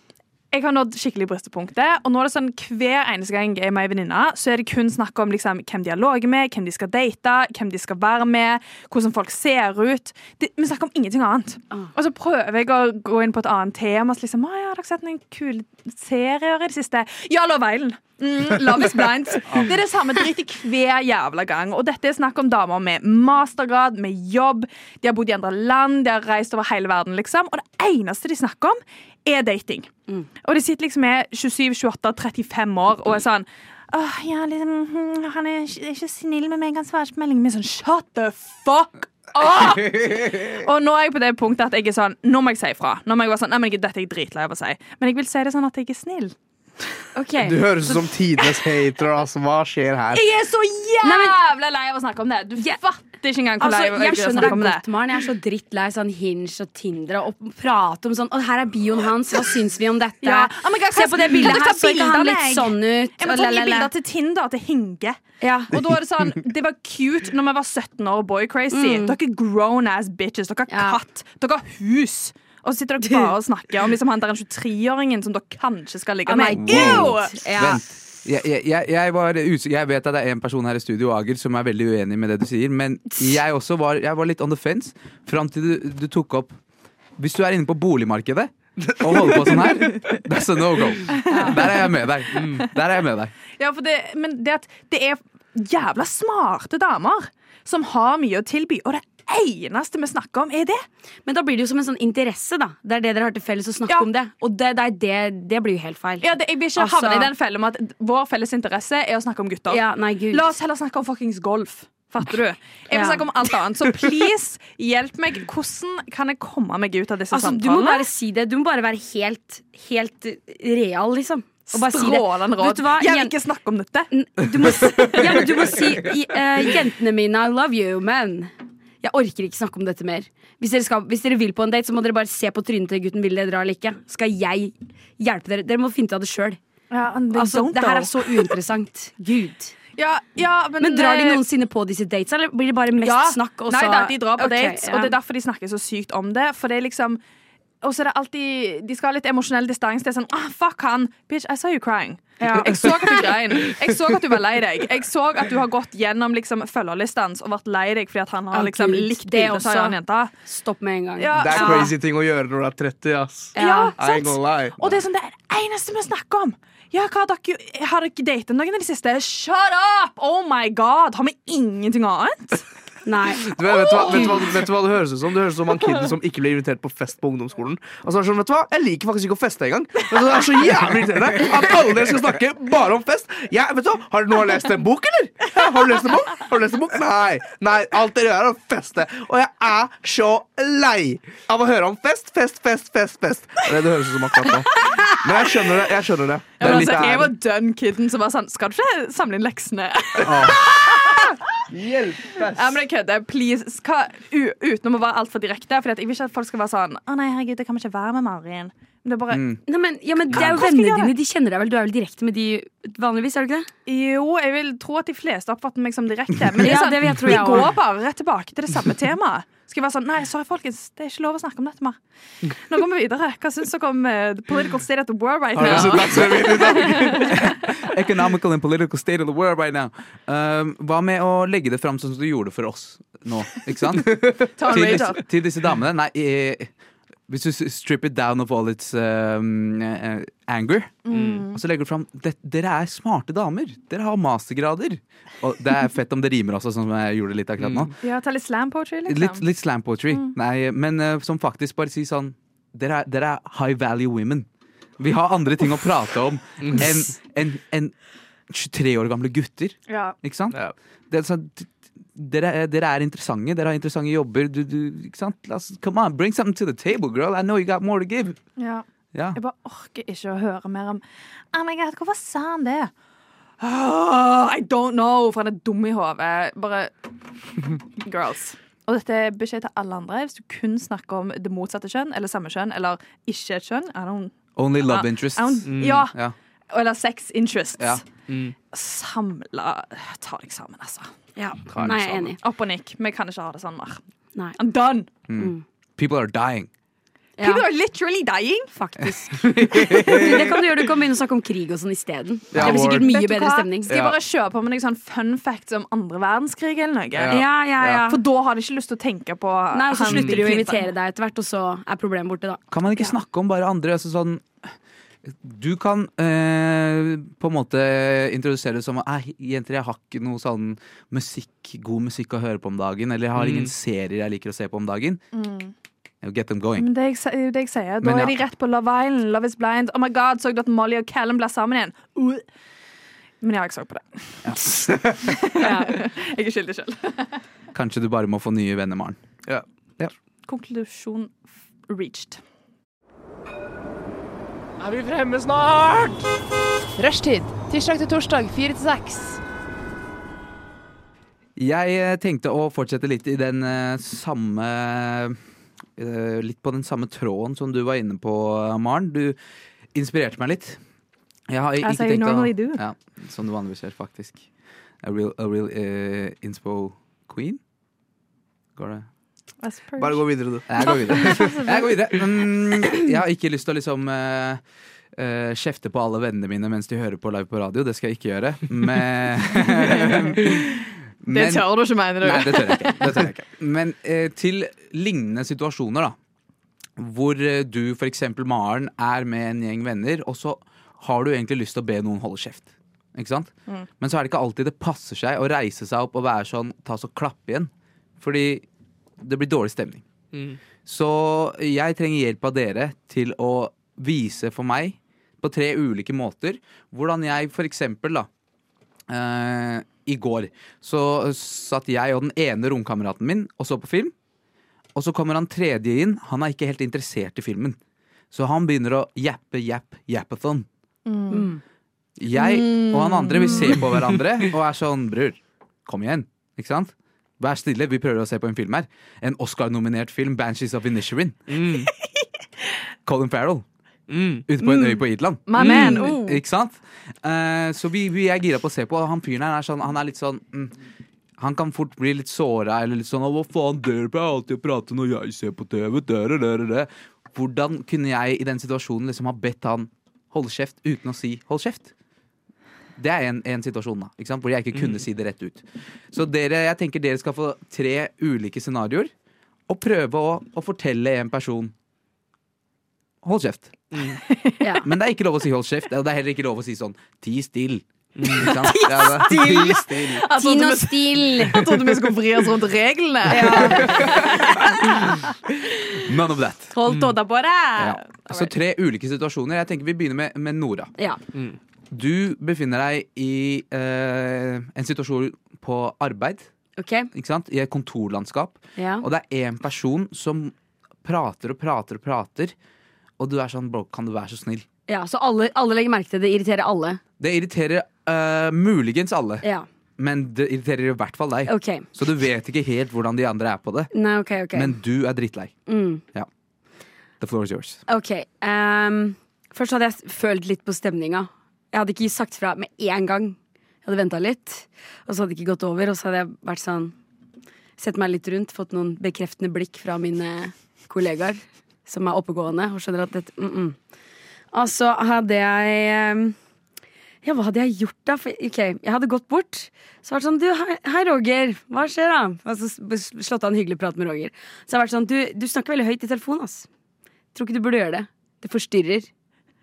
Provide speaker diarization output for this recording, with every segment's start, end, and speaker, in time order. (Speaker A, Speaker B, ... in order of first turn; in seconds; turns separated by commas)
Speaker A: 0.5-29.9, Speaker A: 30.4-46.3, Speaker B: 47.1-48.1, Speaker C: 47.4-50.2, Speaker A: 50.1-54.8, Speaker B: 51.0-51.4, Speaker B: 53.6-63.9, Speaker A: 60.2-65.2, Speaker B: 65.4-65.8, Speaker A: 65.7-77.4, Speaker B: 68.7-69.1, Speaker B: 70.7-71.0, Speaker B: 73.0-73.3, Speaker B: 76.2-78.0, Speaker D: 76.6-86.5, Speaker D: 87.2-93.3, Speaker C: 88.8-90.0, Speaker A: 91.2-91.8, Speaker C: 92.3-92.6, Speaker A: 93.6-100.8, Speaker B: 101.2-107.3, Speaker A: 106.2-118.1, Speaker B: 109.7-110.5, Speaker B: 112.9-113.2, Speaker B: 117.3-123.3, Speaker A: 121.7-125.8, Speaker B: 124.1-136.6, Speaker A: 136.9-138.5, Speaker B: 137.3-139.7, Speaker A: 139.9-141.4, Speaker B: 140.8-145.1, Speaker A: 143.0-147.2, Speaker A: 147.8-160.3, Speaker B: 152.4-153.3, Speaker B: 158.5-159.9, Speaker B: 160.5-161.9, Speaker A: 161.2-161.9, Speaker C: 161.4-165.0, Speaker B: 163.5-163.9, Speaker A: 163.6-172.6, Speaker B: 173.0-174.4, Speaker C: 173.4-197.3, Speaker A: 173.9-174.4, Speaker A: 194.7-195.7, Speaker A: 196.6-201.4, Speaker D: 196.6-197.3, Speaker D: 200.2-200.7, Speaker C: 201.7-202.8, Speaker A: 202.4-209.4, Speaker D: 209.3-209.6, Speaker B: 209.7-213.7, Speaker A: 210.3-211.1, Speaker A: 213.9-222.0, Speaker B: 216.6-217.7, Speaker A: 222.5-227.4, Speaker D: 225.6-236.7, Speaker C: 225.6-227.4, Speaker C: 234.1-234.5, Speaker A: 234.6-235.2, Speaker D: 237.3-247.9, Speaker A: 241.1-241.6, Speaker C: 241.1-241.4, Speaker C: 247.6-247.9, Speaker A: 248.0-249.4, Speaker D: 249.1-254.5, Speaker D: 255.0-257.9, Speaker C: 256.6-256.9, Speaker D: 258.5-260.6, Speaker A: 259.9-260.1, Speaker D: 261.1-268.4, Speaker A: 268.6-268.8, Speaker D: 269.1-269.4, Speaker A: 269.4-271.0, Speaker A: 271.5-272.9, Speaker A: 273.6-277.1, Speaker A: 277.6-286.1, Speaker D: 284.6-286.3, Speaker C: 285.6-286.1, Speaker A: 286.7-288.0, Speaker C: 288.3-288.5, Speaker A: 288.7-291.1, Speaker B: 291.4-292.4, Speaker D: 291.7-292.3, Speaker A: 292.4-294.0, Speaker A: 294.6-295.1, Speaker D: 295.3-296.7, Speaker B: 295.4-295.6, Speaker B: 297.4-297.6, Speaker A: 297.4-298.7, Speaker B: 298.8-303.9, Speaker C: 299.4-300.5, Speaker C: 302.5-303.1, Speaker A: 302.6-307.4, Speaker C: 303.9-304.2, Speaker C: 307.1-308.1, Speaker B: 307.3-308.2, Speaker A: 308.1-310.9, Speaker B: 309.7-312.6, Speaker C: 310.0-310.4, Speaker D: 312.7-314.4, Speaker D: 315.4-325.2, Speaker C: 323.4-323.7, Speaker A: 325.3-325.7, Speaker D: 326.2-326.9, Speaker A: 326.8-332.4, Speaker D: 328.0-328.4, Speaker A: 333.4-334.4, Speaker D: 334.4-334.8, Speaker A: 335.2-337.4, Speaker B: 335.6-336.0, Speaker D: 337.7-339.2, Speaker A: 340.5-341.3, Speaker A: 341.9-342.4, Speaker E: 344.8-345.1, Speaker C: 345.1-345.9, Speaker E: 347.0-349.4, Speaker D: 351.6-355.4, Speaker D: 356.0-359.4, Speaker D: 359.9-360.8, Speaker D: 361.5-364.5, Speaker A: 361.8-362.8, Speaker D: 365.0-367.6, Speaker D: 368.8-369.1, Speaker A: 369.6-370.2, Speaker C: 370.0-371.5, Speaker D: 370.7-374.6, Speaker A: 370.8-371.9, Speaker D: 375.1-386.1, Speaker A: 379.7-383.2, Speaker D: 387.0-398.6, Speaker D: 399.2-400.0, Speaker C: 400.3-400.6, Speaker D: 400.9-408.3, Speaker D: 409.1-414.1, Speaker D: 414.9-417.8, Speaker D: 418.3-420.7, Speaker A: 421.1-421.5, Speaker B: 421.3-421.6, Speaker D: 422.2-431.4, Speaker A: 422.4-423.7, Speaker C: 431.5-431.9, Speaker D: 433.1-433.6, Speaker C: 434.1-434.4, Speaker D: 434.5-440.7, Speaker A: 434.6-436.4, Speaker C: 435.6-436.1, Speaker D: 441.4-451.9, Speaker D: 453.0-459.1, Speaker C: 454.7-455.0, Speaker D: 459.7-461.7, Speaker D: 463.2-463.8, Speaker C: 463.9-464.2, Speaker A: 464.3-464.6, Speaker B: 464.6-464.9, Speaker D: 464.8-469.6, Speaker C: 468.1-470.2, Speaker A: 468.4-476.0, Speaker B: 468.6-471.7, Speaker B: 473.2-474.2, Speaker D: 476.0-476.7, Speaker A: 476.7-478.5, Speaker C: 476.9-477.1, Speaker D: 477.8-480.9, Speaker D: 481.9-486.5, Speaker B: 486.8-487.1, Speaker D: 487.1-492.5, Speaker B: 488.8-489.1, Speaker D: 493.2-494.6, Speaker B: 494.9-497.0, Speaker D: 497.2-499.4, Speaker D: 500.0-503.9, Speaker B: 501.5-501.9, Speaker B: 503.9-504.8, Speaker D: 504.5-505.5, Speaker B: 505.7-506.0, Speaker D: 507.2-507.8, Speaker B: 507.9-516.9, Speaker B: 517.8-523.8, Speaker B: 524.5-526.4, Speaker B: 527.2-536.7, Speaker B: 537.3-539.1